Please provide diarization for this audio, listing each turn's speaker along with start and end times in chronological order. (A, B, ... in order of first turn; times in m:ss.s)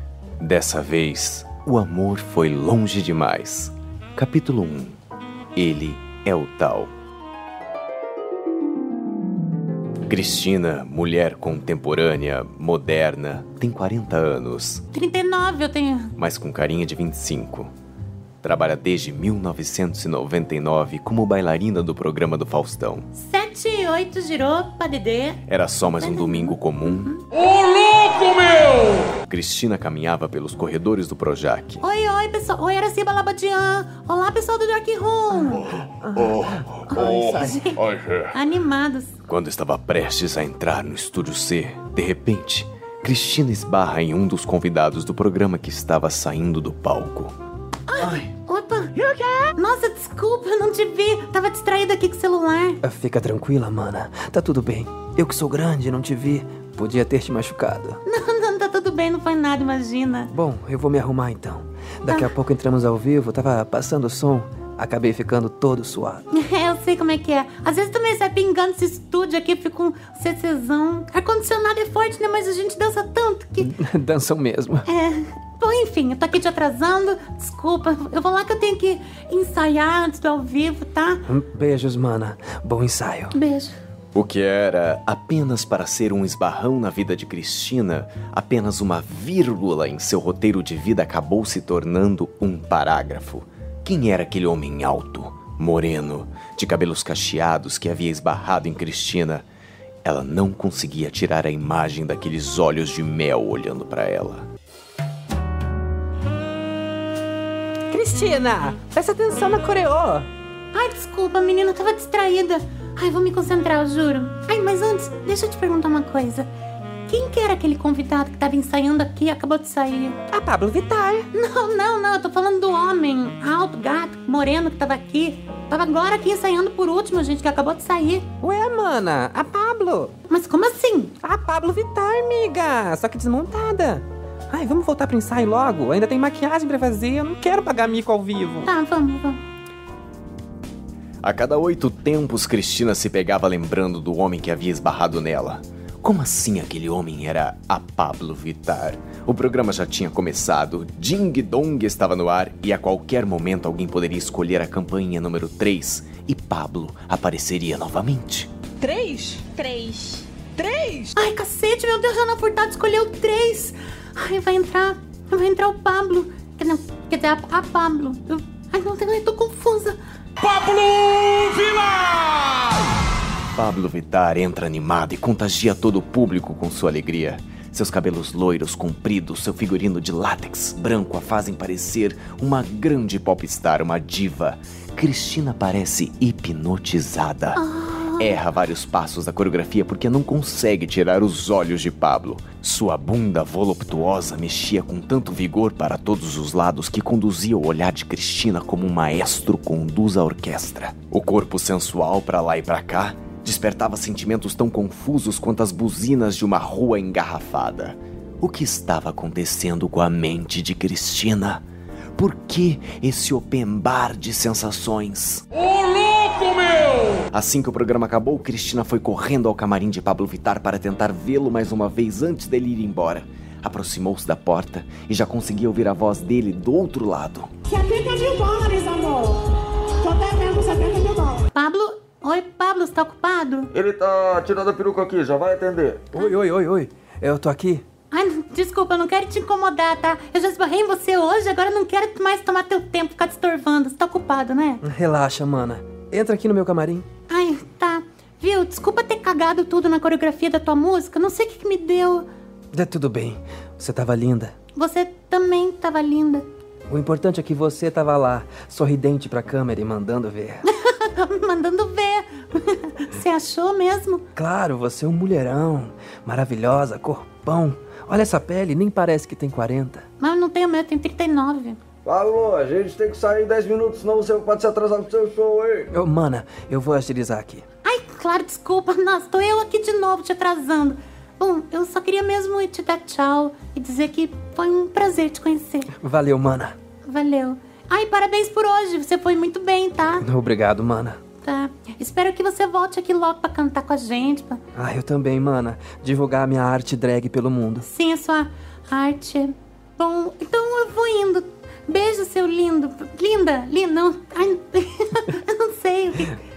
0:00.4-0:05.0 A
0:05.5-0:06.9 A
0:10.1-0:14.8 A
0:14.9-0:16.1 B
0:16.2-0:17.7 A
0:18.4-0:23.1 A
0:23.1-0:25.4 B
0:25.5-0:27.1 A
0:25.9-0:27.4 B
0:27.4-0:28.9 C
0:29.0-0:31.8 A
0:31.8-0:36.0 B
0:36.0-0:37.6 D
0:36.2-0:36.6 A
0:36.8-0:39.1 B
0:39.3-0:47.3 A
0:47.9-0:52.8 B
0:52.8-0:58.0 D
0:58.0-1:00.3 B
1:00.3-1:06.2 D
1:02.0-1:02.3 B
1:06.3-1:13.8 B
1:13.6-1:14.9 D
1:14.8-1:21.2 B
1:21.3-1:23.3 D
1:23.3-1:23.7 B
1:24.1-1:39.4 A
1:40.0-1:44.5 A
1:47.9-1:50.3 E
1:50.7-1:56.5 B
1:57.1-2:00.2 B
2:00.3-2:01.3 E
2:01.3-2:08.3 B
2:08.4-2:10.1 E
2:10.3-2:11.2 B
2:11.2-2:18.7 E
2:18.6-2:19.4 B
2:21.2-2:38.5 A
2:38.8-2:41.1 E
2:41.1-2:50.0 B
2:50.6-2:52.6 C
2:53.5-3:07.6 A
3:07.6-3:08.4 B
3:08.1-3:31.6 A
3:32.2-3:35.9 A
3:36.3-3:36.6 C
3:37.1-3:47.5 A
3:47.7-3:49.4 C
3:50.0-3:51.4 C
3:51.2-3:53.7 B
3:53.7-3:56.0 F
3:56.1-3:57.8 D
3:58.1-4:04.8 B
4:04.8-4:07.0 D
4:07.3-4:12.3 B
4:12.7-4:14.5 D
4:14.7-4:16.4 B
4:16.9-4:20.6 D
4:20.6-4:24.2 B
4:24.4-4:30.0 D
4:30.2-4:31.8 B
4:32.0-4:35.9 F
4:35.9-4:37.6 D
4:37.8-4:45.9 B
4:46.0-4:46.7 D
4:47.0-4:50.3 B
4:50.2-4:51.2 D
4:51.4-4:54.6 B
4:54.8-4:57.9 D
4:57.8-5:06.4 B